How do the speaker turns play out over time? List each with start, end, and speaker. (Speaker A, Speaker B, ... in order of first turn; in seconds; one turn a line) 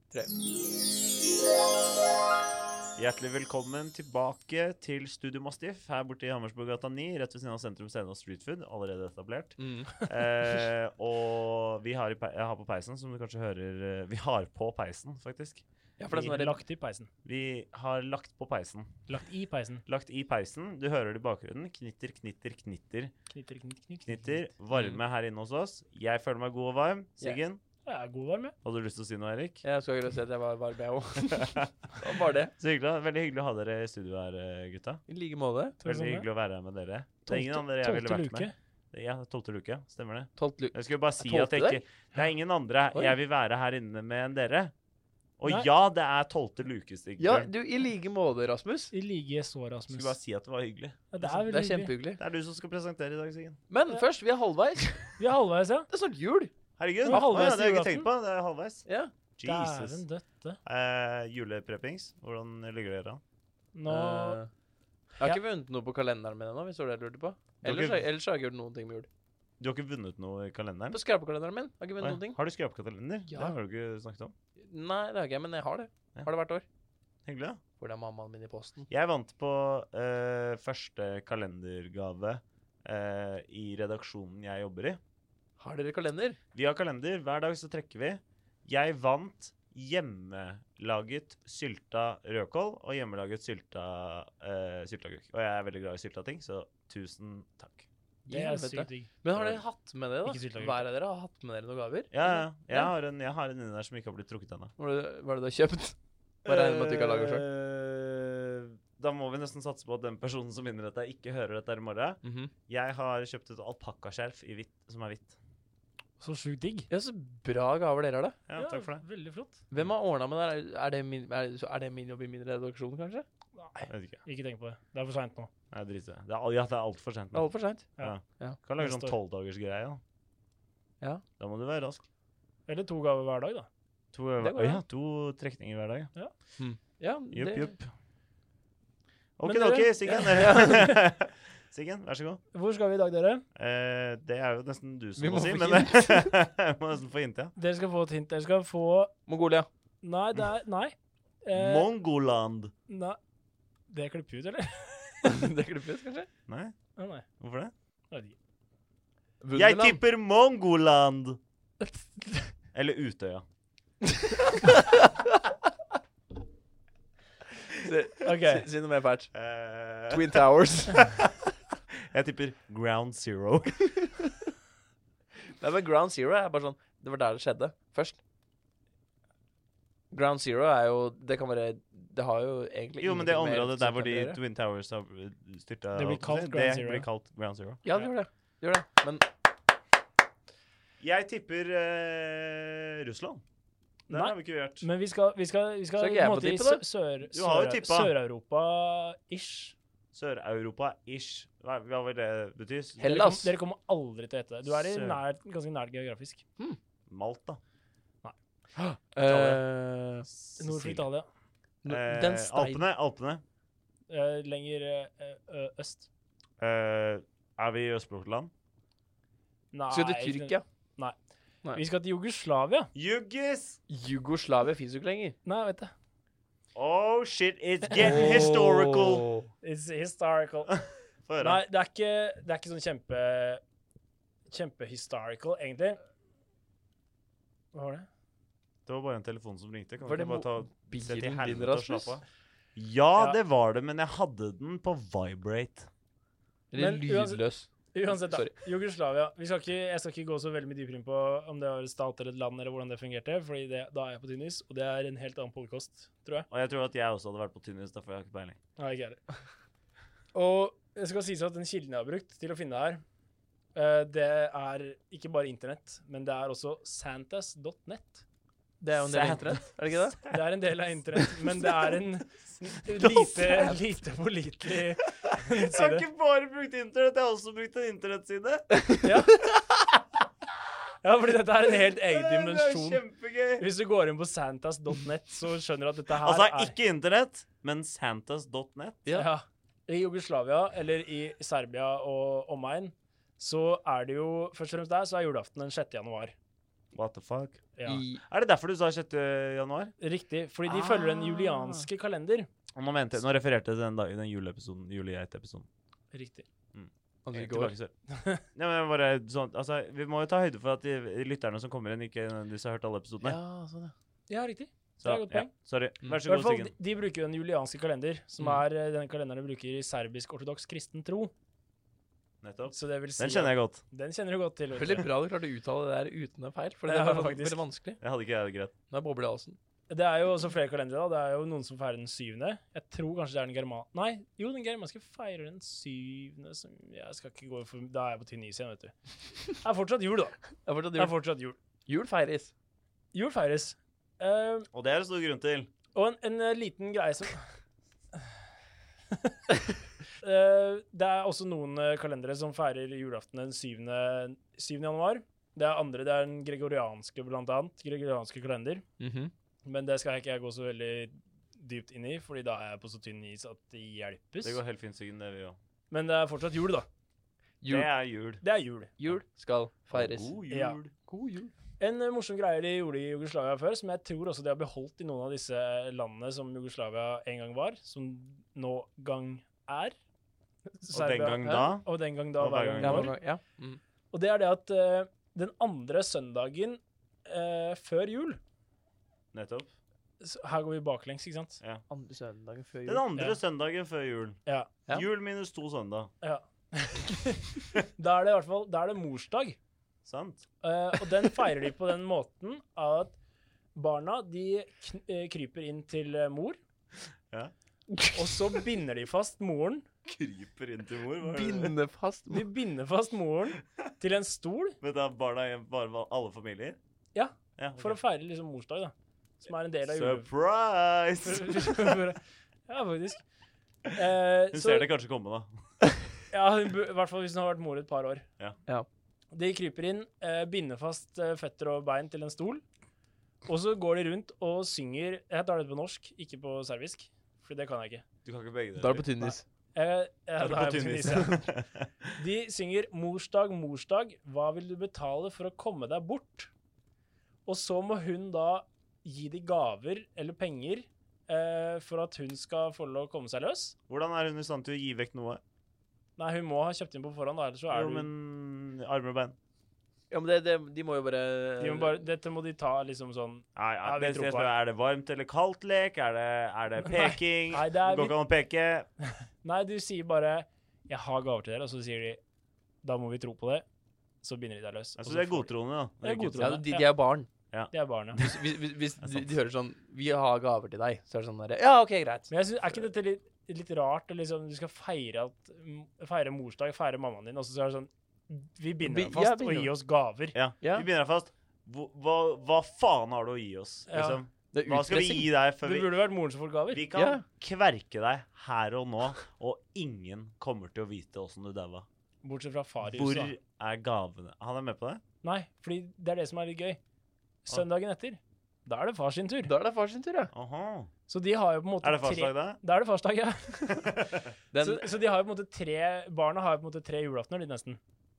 Speaker A: 3.0-15.6
Speaker B: 9.6-9.9
Speaker B: 16.0-16.6
Speaker C: 16.1-17.1
Speaker A: 17.2-19.0
Speaker C: 19.1-19.8
Speaker A: 19.9-23.1
Speaker C: 23.3-24.4
Speaker A: 24.1-27.6
Speaker C: 27.9-28.5
Speaker A: 28.6-29.6
Speaker B: 29.6-32.5
Speaker A: 32.6-35.0
Speaker B: 35.1-35.8
Speaker C: 35.8-36.3
Speaker A: 35.8-44.7
Speaker C: 37.3-38.5
Speaker B: 40.4-41.8
Speaker A: 45.4-47.5
Speaker B: 47.2-48.9
Speaker C: 48.9-50.2
Speaker A: 49.9-51.1
Speaker C: 51.1-51.9
Speaker B: 51.2-52.2
Speaker A: 52.2-53.6
Speaker B: 53.7-55.2
Speaker C: 55.2-55.9
Speaker B: 55.9-56.5
Speaker A: 56.8-58.9
Speaker B: 57.0-57.5
Speaker C: 57.0-58.1
Speaker B: 58.9-59.1
Speaker A: 59.4-60.0
Speaker C: 59.4-60.6
Speaker A: 60.6-63.2
Speaker C: 63.7-64.4
Speaker B: 63.9-64.5
Speaker B: 65.2-69.1
Speaker A: 67.6-68.0
Speaker A: 69.6-71.0
Speaker B: 70.9-72.4
Speaker A: 72.0-74.3
Speaker B: 73.3-73.5
Speaker B: 74.6-76.7
Speaker A: 77.3-77.6
Speaker B: 77.8-78.9
Speaker A: 78.9-85.0
Speaker B: 85.6-86.4
Speaker A: 86.5-97.9
Speaker C: 98.3-99.1
Speaker B: 98.3-102.9
Speaker A: 99.3-99.6
Speaker C: 100.3-100.9
Speaker A: 102.1-104.7
Speaker B: 104.8-107.4
Speaker A: 106.5-115.4
Speaker B: 112.2-112.5
Speaker C: 116.2-116.9
Speaker B: 116.9-118.4
Speaker A: 118.5-119.0
Speaker C: 118.6-119.6
Speaker B: 119.7-123.3
Speaker C: 123.6-125.5
Speaker A: 123.9-124.2
Speaker A: 125.7-130.0
Speaker B: 127.3-128.6
Speaker C: 128.8-129.2
Speaker A: 131.4-132.0
Speaker C: 132.7-133.7
Speaker A: 134.1-136.1
Speaker B: 134.4-134.8
Speaker B: 136.6-137.7
Speaker A: 137.3-137.9
Speaker A: 139.4-142.4
Speaker C: 139.4-141.0
Speaker B: 140.1-140.9
Speaker C: 142.5-143.5
Speaker A: 143.6-147.5
Speaker B: 145.2-146.3
Speaker C: 147.6-149.1
Speaker B: 149.3-149.7
Speaker C: 150.0-151.9
Speaker A: 151.5-152.7
Speaker C: 152.9-153.2
Speaker C: 153.9-155.3
Speaker B: 155.2-156.3
Speaker A: 156.5-156.7
Speaker C: 157.0-157.3
Speaker A: 157.4-157.7
Speaker B: 159.4-160.0
Speaker A: 159.6-161.4
Speaker A: 162.7-163.4
Speaker B: 167.8-169.3
Speaker C: 168.2-168.7
Speaker A: 169.3-170.4
Speaker B: 170.1-171.1
Speaker A: 172.1-174.1
Speaker B: 175.4-178.2
Speaker B: 180.1-184.4
Speaker A: 183.0-188.1
Speaker C: 186.0-187.1
Speaker B: 187.8-189.3
Speaker A: 191.0-193.4
Speaker A: 194.1-194.9
Speaker C: 194.1-199.8
Speaker B: 196.0-196.8
Speaker A: 197.3-198.1
Speaker A: 200.1-203.0
Speaker B: 203.0-203.5
Speaker C: 203.0-206.4
Speaker A: 204.7-205.2
Speaker A: 207.1-207.6
Speaker B: 208.8-210.3
Speaker A: 209.2-209.6
Speaker A: 210.3-211.1
Speaker C: 210.6-211.3
Speaker B: 211.8-212.8
Speaker A: 211.9-213.4
Speaker C: 214.1-216.1
Speaker A: 216.6-218.5
Speaker C: 219.7-221.2
Speaker B: 219.9-220.6
Speaker C: 221.7-222.9
Speaker A: 222.9-223.8
Speaker B: 223.9-225.4
Speaker C: 225.4-225.9
Speaker A: 226.8-229.3
Speaker B: 228.0-229.5
Speaker C: 229.6-230.8
Speaker A: 230.8-231.6
Speaker C: 231.4-233.6
Speaker C: 234.5-236.0
Speaker C: 237.7-238.1
Speaker A: 238.9-242.2
Speaker B: 240.1-242.2
Speaker A: 242.8-245.9
Speaker B: 246.7-248.5
Speaker C: 246.8-256.5
Speaker A: 256.5-258.6
Speaker C: 258.8-259.2
Speaker C: 260.3-263.0
Speaker C: 263.8-268.2
Speaker B: 268.8-270.2
Speaker A: 269.0-269.7
Speaker C: 270.3-276.0
Speaker B: 273.0-273.8
Speaker A: 275.5-278.7
Speaker B: 278.8-279.1
Speaker C: 279.0-279.4
Speaker C: 281.0-283.0
Speaker A: 282.0-283.6
Speaker C: 283.6-286.8
Speaker A: 286.2-289.0
Speaker C: 289.1-296.3
Speaker A: 296.9-297.6
Speaker C: 297.8-298.0
Speaker B: 297.9-298.2
Speaker A: 298.2-299.9
Speaker C: 300.0-302.5
Speaker B: 300.7-301.9
Speaker A: 302.8-305.7
Speaker C: 306.1-306.5
Speaker A: 306.7-307.9
Speaker B: 307.2-307.8
Speaker C: 308.1-308.4
Speaker A: 308.6-313.4
Speaker B: 313.2-313.9
Speaker C: 314.3-315.5
Speaker A: 315.0-316.7
Speaker C: 316.3-321.3
Speaker A: 322.4-323.8
Speaker C: 322.7-325.1
Speaker B: 324.8-328.0
Speaker C: 326.9-327.6
Speaker A: 328.0-328.7
Speaker B: 328.9-329.6
Speaker C: 329.9-341.6
Speaker B: 340.6-341.1
Speaker B: 341.9-342.5
Speaker C: 343.1-344.7
Speaker A: 344.7-345.7
Speaker C: 345.9-347.4
Speaker C: 350.2-358.8
Speaker B: 359.0-359.3
Speaker C: 359.6-364.6
Speaker A: 364.4-365.6
Speaker C: 365.9-366.9
Speaker B: 367.6-367.9
Speaker A: 367.7-368.4
Speaker C: 368.4-368.9
Speaker B: 369.0-370.4
Speaker A: 369.9-370.9
Speaker C: 370.5-370.8
Speaker B: 370.9-371.5
Speaker C: 371.8-379.9
Speaker C: 380.8-383.2
Speaker A: 380.9-381.9
Speaker A: 382.4-383.1
Speaker B: 382.8-383.8
Speaker C: 384.1-388.4
Speaker A: 389.3-389.7
Speaker C: 390.2-391.6
Speaker B: 391.9-393.1
Speaker A: 392.9-394.4
Speaker C: 394.5-394.7
Speaker A: 394.9-396.1
Speaker C: 396.2-399.6
Speaker A: 400.1-400.5
Speaker C: 400.6-403.1
Speaker C: 403.8-406.6
Speaker B: 407.9-408.2
Speaker C: 408.1-409.9
Speaker A: 410.1-411.8
Speaker B: 411.2-412.5
Speaker C: 412.3-414.8
Speaker A: 414.8-416.8
Speaker C: 417.1-420.3
Speaker A: 417.6-418.0
Speaker A: 419.9-422.0
Speaker C: 421.2-423.2
Speaker C: 423.9-424.9
Speaker A: 424.5-425.5
Speaker C: 426.3-428.3
Speaker C: 429.3-432.6
Speaker C: 433.5-438.0
Speaker A: 438.2-439.1
Speaker B: 438.8-439.4
Speaker C: 439.2-441.4
Speaker A: 440.4-441.9
Speaker C: 442.2-446.5
Speaker C: 447.5-453.8
Speaker A: 453.9-455.4
Speaker C: 456.2-458.1
Speaker A: 457.7-459.4
Speaker B: 460.1-462.0
Speaker C: 461.6-464.5
Speaker A: 463.6-468.9
Speaker C: 466.9-468.2
Speaker C: 469.4-472.2
Speaker C: 472.8-473.6
Speaker C: 474.2-475.5
Speaker A: 475.0-476.6
Speaker C: 476.0-476.9
Speaker B: 476.4-477.3
Speaker A: 477.5-478.4
Speaker C: 477.7-478.2
Speaker B: 478.2-482.3
Speaker A: 479.0-479.3
Speaker C: 482.3-490.4
Speaker B: 488.8-489.7
Speaker A: 490.3-495.9
Speaker B: 490.6-490.9
Speaker C: 493.9-494.2
Speaker B: 494.5-495.3
Speaker C: 495.6-496.8
Speaker A: 496.7-501.9
Speaker B: 496.9-497.2
Speaker C: 502.2-503.3
Speaker A: 502.8-505.0
Speaker C: 505.2-506.8
Speaker C: 507.5-509.5
Speaker B: 509.4-510.3
Speaker A: 510.3-510.9
Speaker C: 511.1-514.0
Speaker A: 511.8-512.6
Speaker A: 513.7-514.3
Speaker B: 514.5-514.9
Speaker C: 514.6-517.8